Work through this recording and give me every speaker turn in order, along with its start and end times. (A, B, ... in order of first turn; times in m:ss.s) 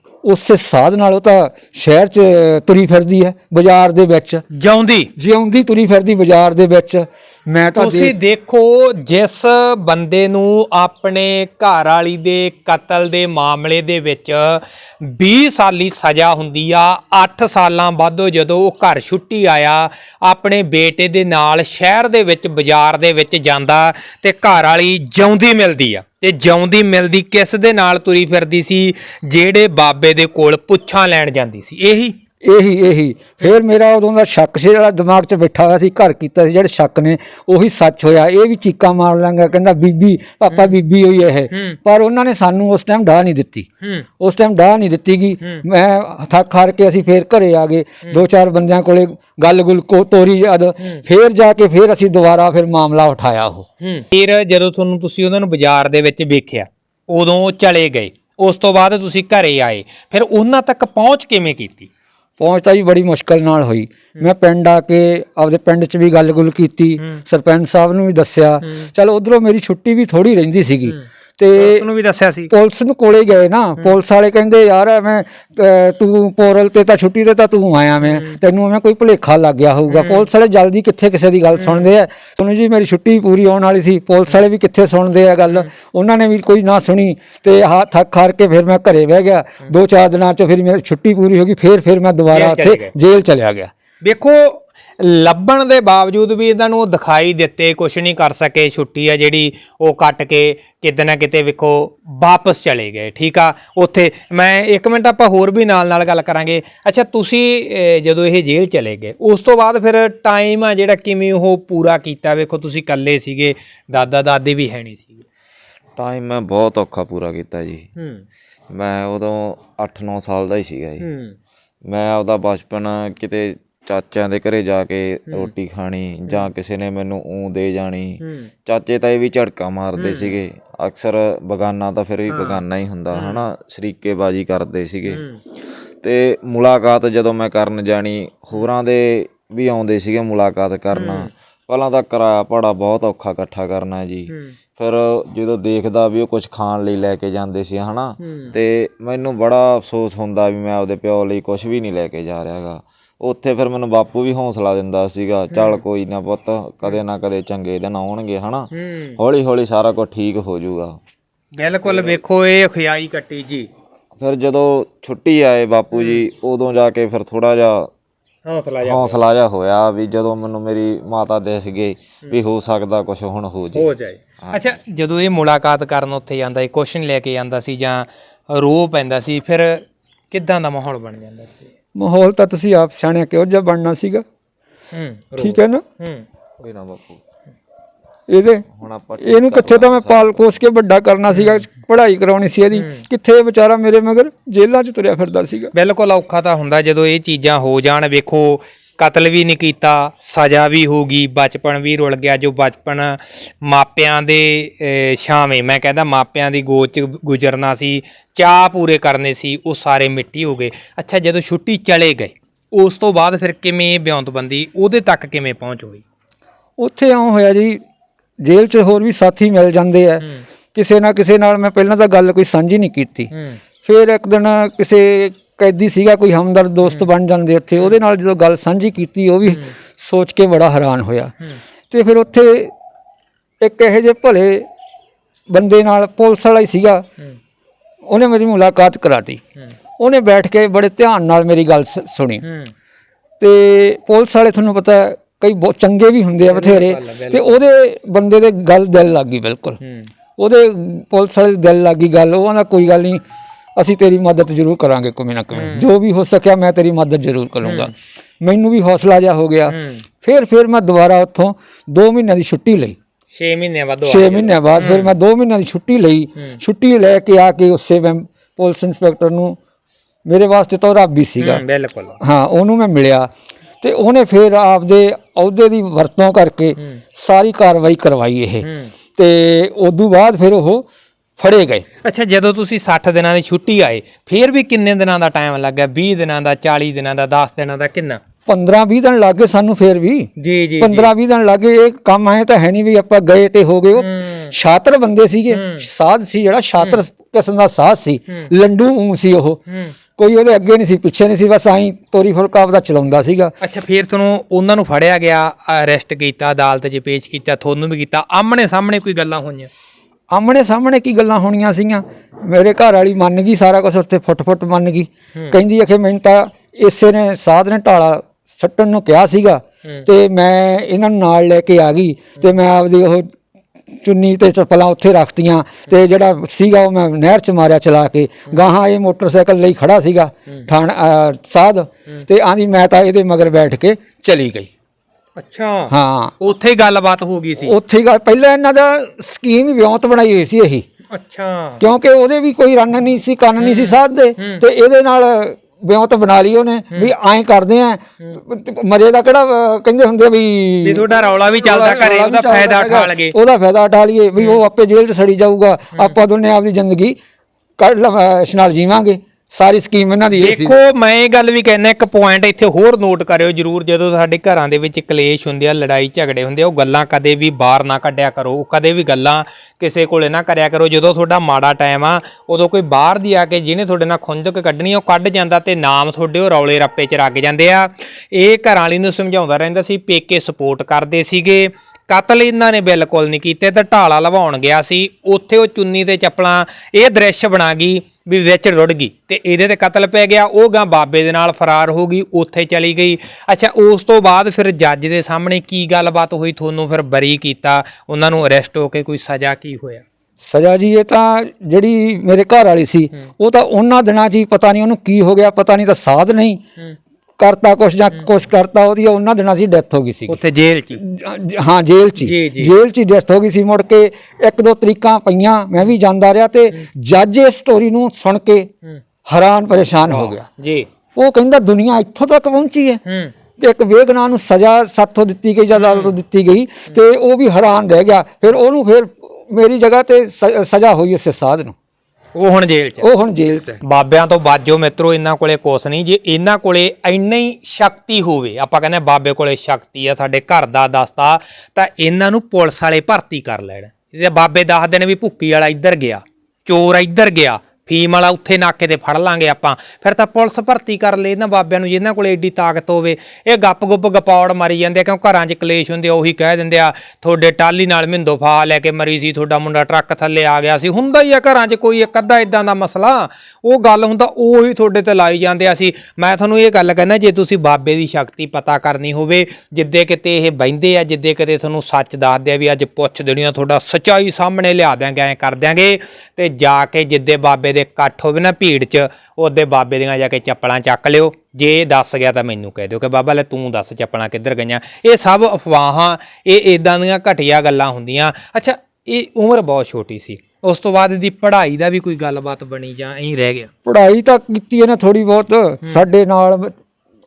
0:00.2-0:04.4 A
0:04.5-0:05.1 B
0:05.2-0:08.1 A
0:07.8-0:32.1 B
0:32.4-0:43.7 A
0:40.5-0:40.8 B
0:41.5-0:41.8 B
0:43.8-0:44.0 B
0:44.2-0:53.6 A
0:53.8-1:01.9 B
1:02.4-1:11.8 A
1:08.6-1:08.9 B
1:11.6-1:12.5 B
1:12.5-1:33.7 A
1:18.0-1:18.4 B
1:19.9-1:20.3 B
1:21.6-1:21.9 B
1:32.3-1:32.9 B
1:34.0-1:55.2 B
1:56.0-1:57.8 C
1:58.0-1:58.2 B
1:58.7-2:01.0 C
2:01.0-2:01.4 B
2:01.9-2:15.2 C
2:08.2-2:08.5 B
2:10.0-2:10.3 B
2:12.3-2:12.6 B
2:13.1-2:13.4 B
2:15.1-2:15.4 B
2:16.0-2:41.0 C
2:20.9-2:21.3 B
2:24.3-2:24.5 B
2:28.2-2:28.5 B
2:35.5-2:35.8 B
2:38.7-2:39.2 B
2:41.5-2:43.7 B
2:41.8-2:42.2 C
2:44.2-2:47.9 C
2:45.9-2:46.2 B
2:48.4-2:49.2 B
2:48.8-2:53.9 C
2:53.7-3:01.7 B
2:54.4-2:54.7 C
3:02.0-3:04.2 A
3:04.9-3:06.2 B
3:05.4-3:05.8 A
3:06.6-3:07.2 C
3:08.3-3:08.6 A
3:08.7-3:10.6 C
3:09.2-3:15.7 A
3:11.3-3:11.6 B
3:12.7-3:13.0 B
3:15.7-3:36.0 B
3:36.8-3:37.8 A
3:38.4-3:43.3 A
3:43.3-3:43.6 B
3:43.8-3:51.3 A
3:49.5-3:49.7 B
3:51.9-3:52.7 A
3:53.6-3:54.6 A
3:55.5-3:57.0 A
3:58.1-3:59.4 A
4:00.0-4:02.4 A
4:02.4-4:02.7 B
4:03.4-4:09.8 A
4:06.4-4:07.6 B
4:09.8-4:10.1 B
4:10.4-4:13.2 A
4:13.8-4:23.0 A
4:15.5-4:15.9 B
4:17.6-4:17.9 B
4:19.7-4:20.0 B
4:23.3-4:25.1 B
4:24.0-4:29.6 A
4:30.2-4:31.6 A
4:31.4-4:32.2 B
4:32.2-4:33.3 A
4:33.8-4:38.6 A
4:38.6-4:38.9 B
4:39.2-4:40.8 A
4:41.4-4:41.8 A
4:42.0-4:48.2 B
4:48.5-4:59.6 A
4:50.4-4:51.1 B
4:54.0-4:54.5 B
4:55.5-4:55.9 B
4:59.7-4:59.9 B
5:00.2-5:03.6 A
5:03.6-5:09.7 B
5:10.3-5:23.3 A
5:24.0-5:34.7 A
5:35.4-5:37.7 B
5:35.9-5:36.3 A
5:37.6-5:40.8 A
5:41.1-5:41.8 B
5:41.8-5:57.2 A
5:43.6-5:44.6 B
5:50.8-5:53.3 B
5:57.8-6:00.8 A
6:00.4-6:40.0 B
6:40.4-6:46.6 A
6:47.4-6:50.4 A
6:50.3-6:51.0 B
6:51.0-6:58.7 A
6:52.2-6:52.7 B
6:59.2-7:00.5 A
7:00.1-7:00.9 B
7:01.2-7:03.0 A
7:03.0-7:03.3 B
7:03.6-7:11.7 A
7:05.8-7:06.1 B
7:12.3-7:13.1 B
7:13.0-7:13.8 A
7:13.8-8:13.7 B
8:13.8-8:16.7 A